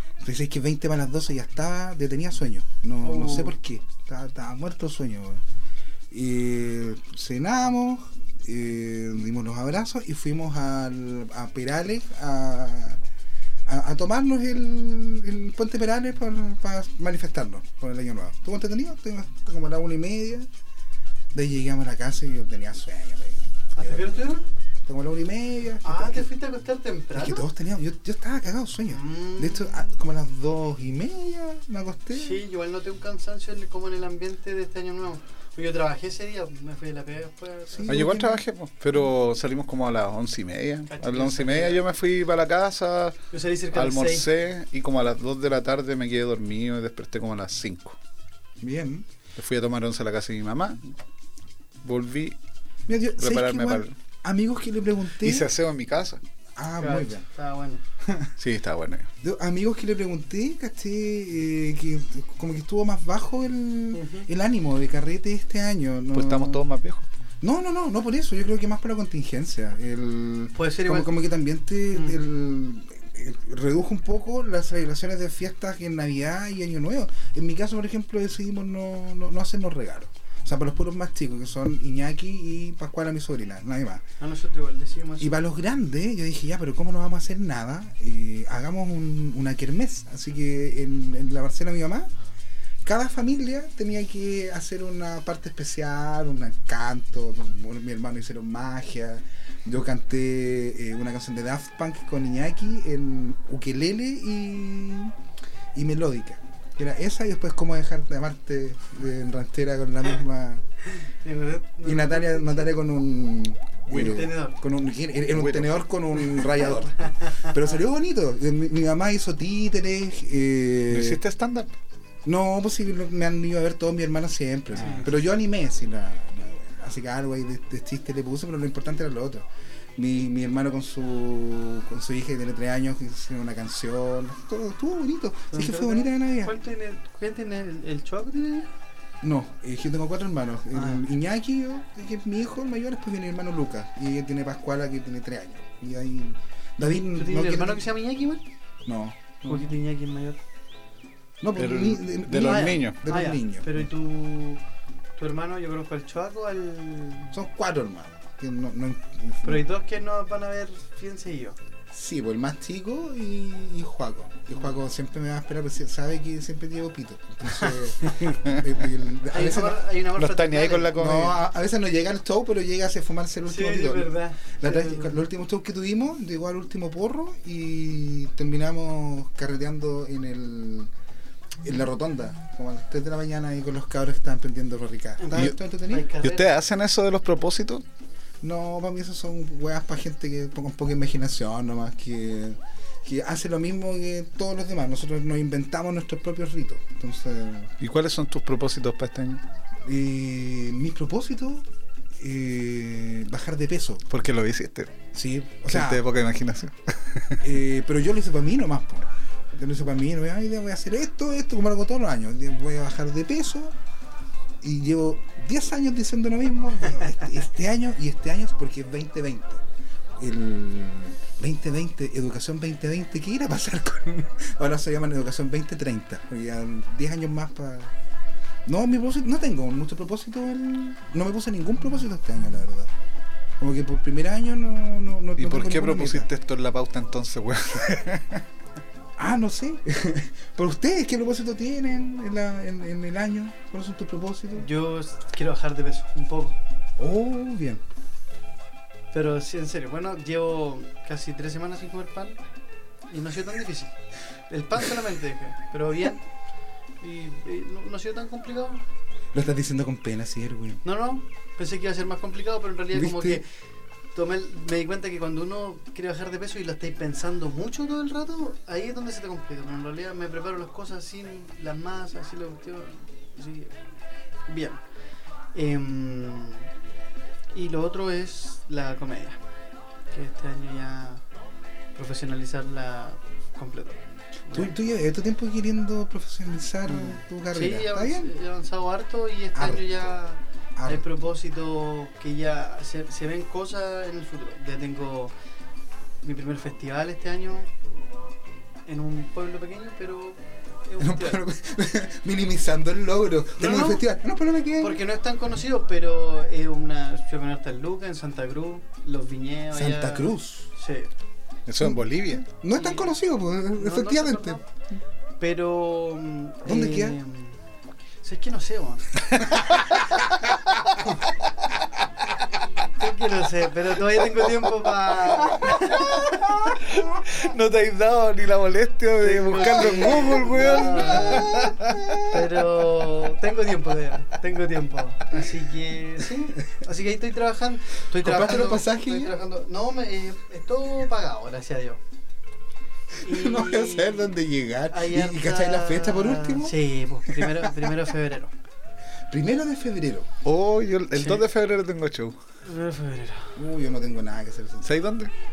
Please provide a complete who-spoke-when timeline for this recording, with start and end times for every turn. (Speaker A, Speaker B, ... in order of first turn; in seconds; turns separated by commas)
Speaker A: 0.2-5.4, Speaker B: 3.0-3.5, Speaker A: 6.1-13.0, Speaker A: 13.7-20.5, Speaker A: 21.3-26.3, Speaker B: 23.8-24.4, Speaker B: 25.8-27.5, Speaker A: 27.1-32.4, Speaker B: 28.9-29.9, Speaker B: 32.1-38.0, Speaker A: 37.7-38.4, Speaker C: 37.9-43.2, Speaker B: 40.9-41.8, Speaker B: 43.3-44.3, Speaker C: 43.7-48.0, Speaker A: 48.6-49.0, Speaker C: 49.4-50.8, Speaker C: 51.8-52.4, Speaker A: 52.9-55.5, Speaker C: 53.2-53.9, Speaker C: 55.2-56.2, Speaker A: 56.5-57.2, Speaker B: 56.8-57.8, Speaker A: 58.0-58.3, Speaker C: 58.4-59.1, Speaker A: 59.2-66.6, Speaker B: 63.9-64.3, Speaker C: 66.1-67.0, Speaker A: 67.4-84.0, Speaker B: 70.5-71.2, Speaker B: 71.9-72.2, Speaker B: 84.2-85.4, Speaker A: 85.2-92.1, Speaker A: 92.8-105.1, Speaker A: 105.7-110.6, Speaker B: 110.9-112.7, Speaker A: 111.8-121.2, Speaker C: 113.9-114.3, Speaker B: 113.9-114.6, Speaker C: 115.3-115.8, Speaker B: 116.8-117.5, Speaker C: 120.9-121.7, Speaker A: 122.2-136.5, Speaker B: 124.7-125.1, Speaker B: 135.5-138.7, Speaker A: 139.2-147.8, Speaker B: 140.7-141.0, Speaker B: 147.1-148.4, Speaker A: 148.8-149.3, Speaker C: 149.4-149.7, Speaker B: 149.4-150.4, Speaker A: 151.4-153.7, Speaker C: 151.6-153.0, Speaker B: 152.4-154.6, Speaker B: 155.2-157.3, Speaker A: 157.3-159.6, Speaker B: 159.4-161.6, Speaker A: 161.9-169.8, Speaker B: 167.5-167.8, Speaker C: 168.3-168.6, Speaker B: 169.3-171.0, Speaker C: 170.1-171.4, Speaker A: 170.9-180.9, Speaker B: 173.5-175.2, Speaker A: 181.6-186.1, Speaker B: 185.2-186.5, Speaker C: 186.2-187.8, Speaker A: 188.4-197.7, Speaker C: 197.8-199.4, Speaker A: 199.8-201.7, Speaker A: 202.2-204.0, Speaker C: 204.1-205.0, Speaker A: 205.1-206.0, Speaker C: 205.7-207.4, Speaker A: 207.4-213.7, Speaker A: 214.6-219.6, Speaker A: 220.2-227.9, Speaker A: 228.7-232.9, Speaker A: 233.6-236.3, Speaker C: 235.4-238.4, Speaker A: 239.2-244.7, Speaker B: 244.6-246.6, Speaker A: 247.0-247.8, Speaker B: 249.1-252.4, Speaker B: 253.1-253.9, Speaker B: 254.5-256.2, Speaker B: 257.0-258.8, Speaker A: 259.3-260.8, Speaker B: 260.8-263.5, Speaker A: 262.9-263.4, Speaker B: 264.1-273.8, Speaker B: 274.5-274.8, Speaker B: 275.5-276.7, Speaker B: 277.5-279.4, Speaker B: 280.1-281.2, Speaker B: 281.9-284.7, Speaker A: 284.5-288.3, Speaker B: 286.9-295.3, Speaker A: 289.5-290.0, Speaker A: 290.8-291.1, Speaker B: 296.2-297.7, Speaker B: 298.9-301.4, Speaker A: 301.0-305.0, Speaker B: 303.6-304.0, Speaker B: 304.8-311.1, Speaker A: 309.7-310.7, Speaker C: 311.6-312.4, Speaker A: 311.8-314.6, Speaker B: 312.7-313.1, Speaker B: 313.8-314.6, Speaker B: 315.4-317.6, Speaker A: 316.6-317.2, Speaker B: 318.2-319.6, Speaker C: 319.5-319.8, Speaker B: 321.0-321.3, Speaker B: 323.0-326.6, Speaker C: 324.3-324.6, Speaker C: 325.4-332.4, Speaker B: 329.2-331.7, Speaker A: 329.6-332.3, Speaker B: 332.3-342.0, Speaker A: 338.2-339.3, Speaker A: 343.1-348.0, Speaker B: 343.2-344.3, Speaker B: 344.9-348.5, Speaker A: 349.3-350.3, Speaker C: 350.4-352.4, Speaker B: 351.1-351.4, Speaker B: 352.6-353.6, Speaker A: 353.5-354.9, Speaker C: 354.8-355.3